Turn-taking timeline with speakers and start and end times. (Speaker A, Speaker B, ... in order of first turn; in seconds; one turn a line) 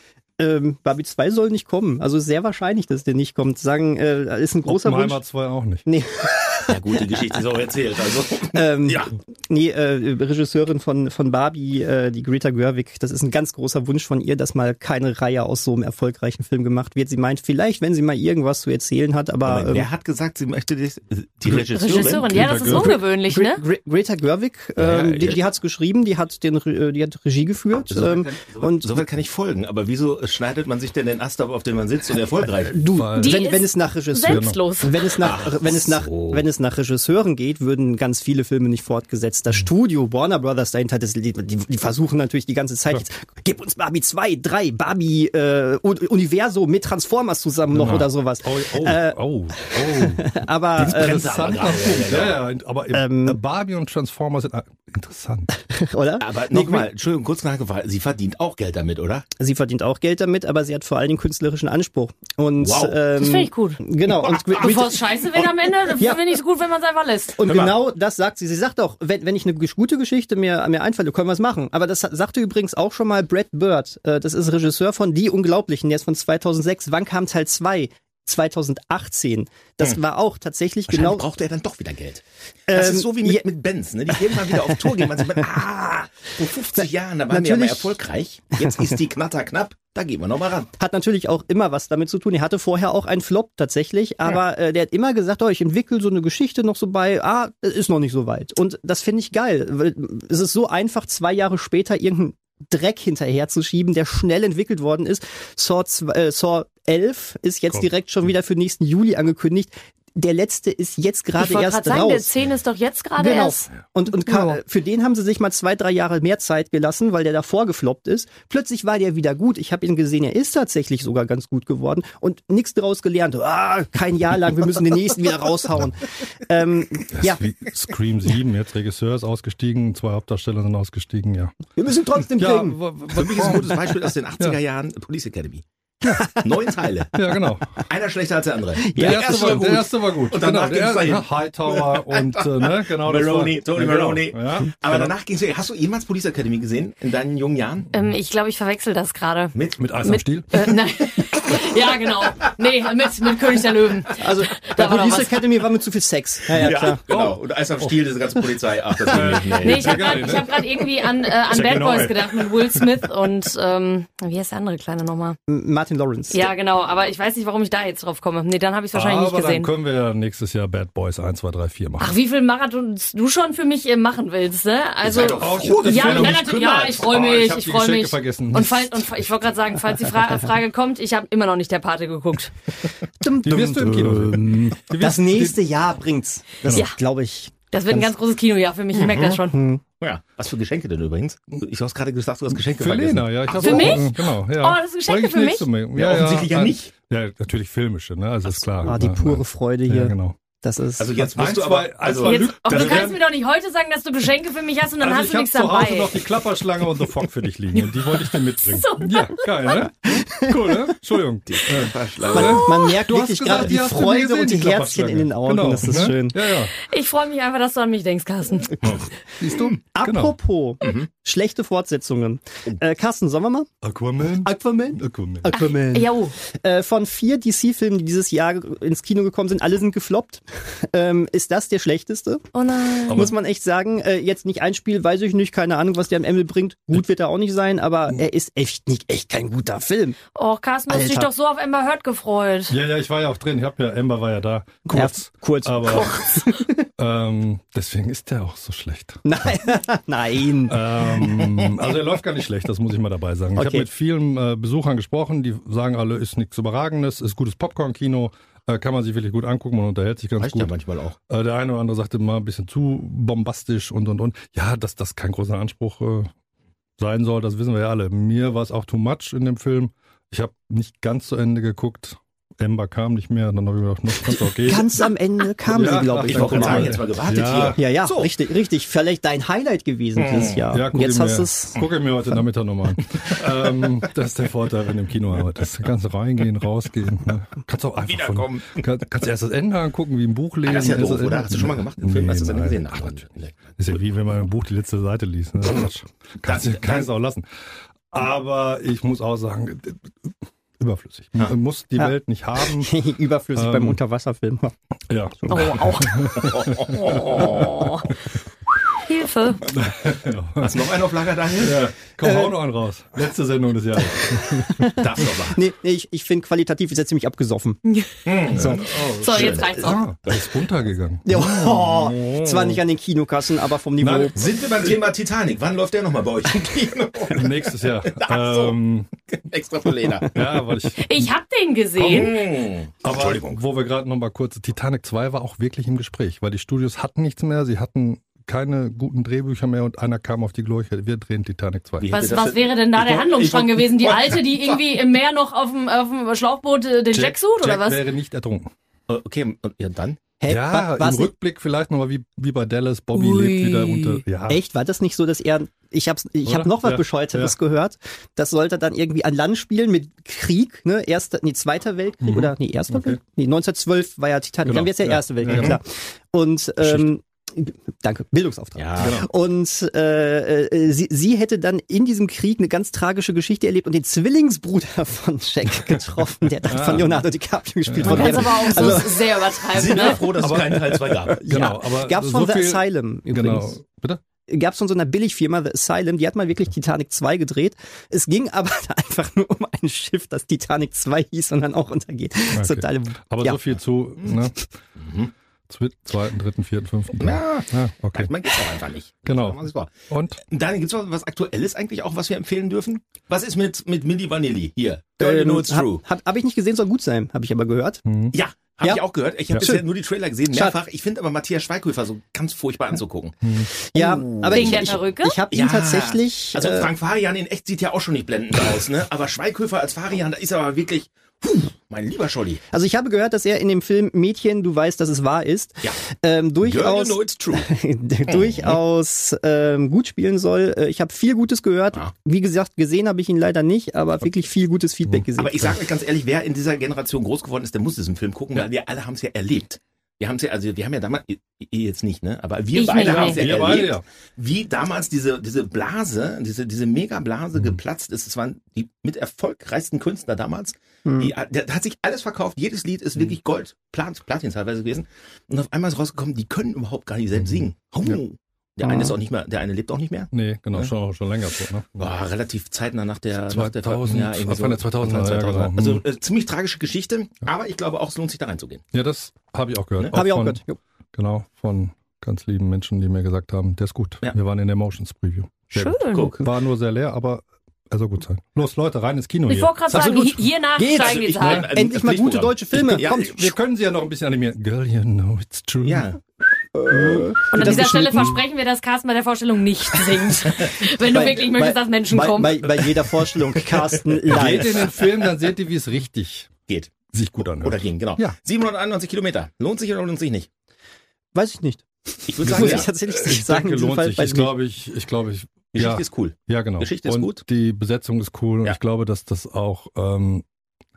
Speaker A: 0.4-5.2
Speaker B: 4.7-5.9
Speaker A: 5.9-7.5
Speaker C: 6.7-9.1
Speaker A: 8.5-19.9
Speaker C: 19.4-22.4
Speaker D: 21.7-23.6
Speaker B: 22.3-22.9
Speaker A: 22.4-29.1
Speaker C: 24.8-25.4
Speaker C: 27.9-32.8
Speaker A: 32.7-51.4
Speaker B: 32.9-33.4
Speaker D: 33.1-35.1
Speaker B: 34.2-34.6
Speaker C: 35.2-36.5
Speaker B: 47.7-55.5
Speaker C: 50.8-52.5
Speaker A: 52.9-53.4
Speaker A: 55.7-56.9
Speaker C: 56.2-59.3
Speaker A: 59.4-65.0
Speaker C: 62.6-63.1
Speaker D: 63.2-63.8
Speaker C: 64.2-64.7
Speaker D: 64.6-67.4
Speaker A: 66.0-66.2
Speaker A: 67.4-81.3
Speaker C: 67.4-67.8
Speaker C: 80.9-90.7
Speaker A: 82.7-83.5
Speaker A: 84.1-84.8
Speaker A: 86.8-88.0
Speaker A: 88.6-88.9
Speaker A: 90.8-112.3
Speaker D: 111.4-114.6
Speaker A: 113.2-127.4
Speaker B: 127.2-131.6
Speaker A: 131.8-132.8
Speaker B: 132.3-133.8
Speaker C: 133.2-135.6
Speaker B: 136.0-136.3
Speaker C: 136.4-137.2
Speaker B: 137.2-137.7
Speaker C: 137.9-147.9
Speaker A: 138.8-139.8
Speaker B: 138.9-145.2
Speaker D: 147.9-155.4
Speaker C: 149.6-149.9
Speaker B: 149.8-150.6
Speaker C: 151.6-152.3
Speaker A: 154.2-157.0
Speaker C: 156.6-160.4
Speaker B: 156.7-157.9
Speaker B: 159.0-160.6
Speaker D: 159.4-165.4
Speaker B: 161.5-163.1
Speaker A: 165.5-166.5
Speaker D: 166.3-169.7
Speaker B: 168.9-172.2
Speaker D: 172.0-182.5
Speaker C: 175.0-177.5
Speaker B: 175.3-176.6
Speaker B: 177.2-179.1
Speaker A: 183.2-188.2
Speaker B: 183.4-185.6
Speaker B: 186.6-186.9
Speaker D: 187.7-189.6
Speaker C: 188.9-189.3
Speaker A: 189.5-189.8
Speaker C: 190.0-194.1
Speaker B: 192.5-200.4
Speaker D: 193.6-195.7
Speaker C: 196.0-196.9
Speaker C: 198.4-198.7
Speaker A: 198.8-201.3
Speaker C: 201.0-203.2
Speaker B: 201.3-203.2
Speaker D: 202.2-206.2
Speaker B: 205.0-216.8
Speaker D: 208.6-209.9
Speaker C: 211.5-212.6
Speaker A: 212.3-216.4
Speaker D: 212.3-212.9
Speaker D: 216.9-218.8
Speaker B: 218.8-220.4
Speaker A: 219.9-223.7
Speaker B: 223.8-225.8
Speaker A: 224.4-232.4
Speaker D: 225.6-226.3
Speaker D: 232.5-233.3
Speaker A: 233.1-240.2
Speaker D: 240.4-242.7
Speaker A: 240.9-241.3
Speaker B: 242.7-246.2
Speaker A: 244.9-246.9
Speaker B: 247.0-249.7
Speaker A: 249.2-250.8
Speaker B: 250.7-260.7
Speaker C: 251.2-251.6
Speaker A: 253.6-253.9
Speaker C: 260.4-261.2
Speaker B: 261.3-266.3
Speaker B: 267.0-275.1
Speaker A: 274.6-277.0
Speaker B: 275.6-277.9
Speaker C: 275.8-278.3
Speaker A: 277.7-281.8
Speaker C: 280.2-280.7
Speaker B: 280.7-297.5
Speaker C: 288.0-288.8
Speaker C: 290.6-294.0
Speaker C: 296.4-297.1
Speaker B: 298.1-300.1
Speaker B: 300.8-302.9
Speaker A: 302.0-304.7
Speaker B: 303.5-304.0
Speaker B: 305.1-308.3
Speaker D: 305.5-306.3
Speaker C: 306.4-308.0
Speaker D: 309.1-309.6
Speaker B: 309.6-310.9
Speaker C: 310.6-311.8
Speaker B: 311.6-314.9
Speaker A: 312.2-312.6
Speaker A: 314.8-317.8
Speaker C: 315.0-315.6
Speaker C: 318.3-320.4
Speaker A: 318.5-318.9
Speaker B: 318.5-322.8
Speaker D: 319.1-320.0
Speaker A: 321.2-324.4
Speaker B: 324.0-324.4
Speaker C: 324.3-328.8
Speaker B: 327.3-329.1
Speaker C: 329.3-330.5
Speaker B: 330.3-331.3
Speaker D: 331.0-332.3
Speaker B: 331.9-332.4
Speaker C: 332.1-333.6
Speaker B: 333.0-342.1
Speaker C: 342.0-344.8
Speaker D: 342.1-348.0
Speaker B: 347.1-348.7
Speaker C: 349.1-350.2
Speaker A: 350.4-351.3
Speaker B: 350.5-354.6
Speaker D: 353.2-354.2
Speaker A: 354.5-379.6
Speaker B: 356.4-357.5
Speaker B: 362.2-363.2
Speaker B: 364.6-365.8
Speaker C: 365.5-365.8
Speaker B: 366.8-367.1
Speaker C: 368.8-369.2
Speaker B: 369.0-369.3
Speaker B: 376.7-377.3
Speaker B: 377.9-379.1
Speaker D: 378.0-380.3
Speaker C: 379.7-381.4
Speaker B: 379.9-384.2
Speaker A: 380.7-383.8
Speaker A: 384.5-393.8
Speaker B: 392.5-394.7
Speaker C: 395.0-395.3
Speaker B: 395.7-398.4
Speaker C: 397.2-399.9
Speaker B: 399.2-400.4
Speaker C: 400.4-406.0
Speaker A: 405.2-408.0
Speaker B: 408.1-408.4
Speaker C: 408.3-413.4
Speaker A: 408.8-409.9
Speaker B: 409.5-409.8
Speaker A: 410.5-410.8
Speaker B: 413.4-413.7
Speaker A: 413.9-416.9
Speaker C: 413.9-422.6
Speaker D: 414.5-415.4
Speaker A: 422.7-435.7
Speaker C: 426.6-427.7
Speaker C: 428.3-428.8
Speaker C: 435.4-460.9
Speaker D: 442.7-443.7
Speaker B: 443.0-444.0
Speaker A: 451.1-451.3
Speaker B: 457.4-458.2
Speaker A: 458.8-459.1
Speaker B: 460.3-461.9
Speaker C: 462.0-468.8
Speaker B: 463.5-466.0
Speaker B: 468.9-470.6
Speaker A: 470.1-470.8
Speaker B: 471.1-480.5
Speaker D: 475.7-476.3
Speaker C: 476.1-476.5
Speaker D: 479.5-481.7
Speaker A: 480.8-483.6
Speaker C: 480.9-483.3
Speaker B: 482.9-486.1
Speaker C: 485.9-486.2
Speaker A: 486.8-488.4
Speaker B: 486.9-488.4
Speaker D: 487.5-492.6
Speaker A: 491.1-495.0
Speaker B: 494.2-496.5
Speaker C: 496.7-500.5
Speaker B: 497.1-498.4
Speaker A: 501.3-504.5
Speaker C: 502.3-502.9
Speaker B: 502.4-510.4
Speaker C: 505.8-507.4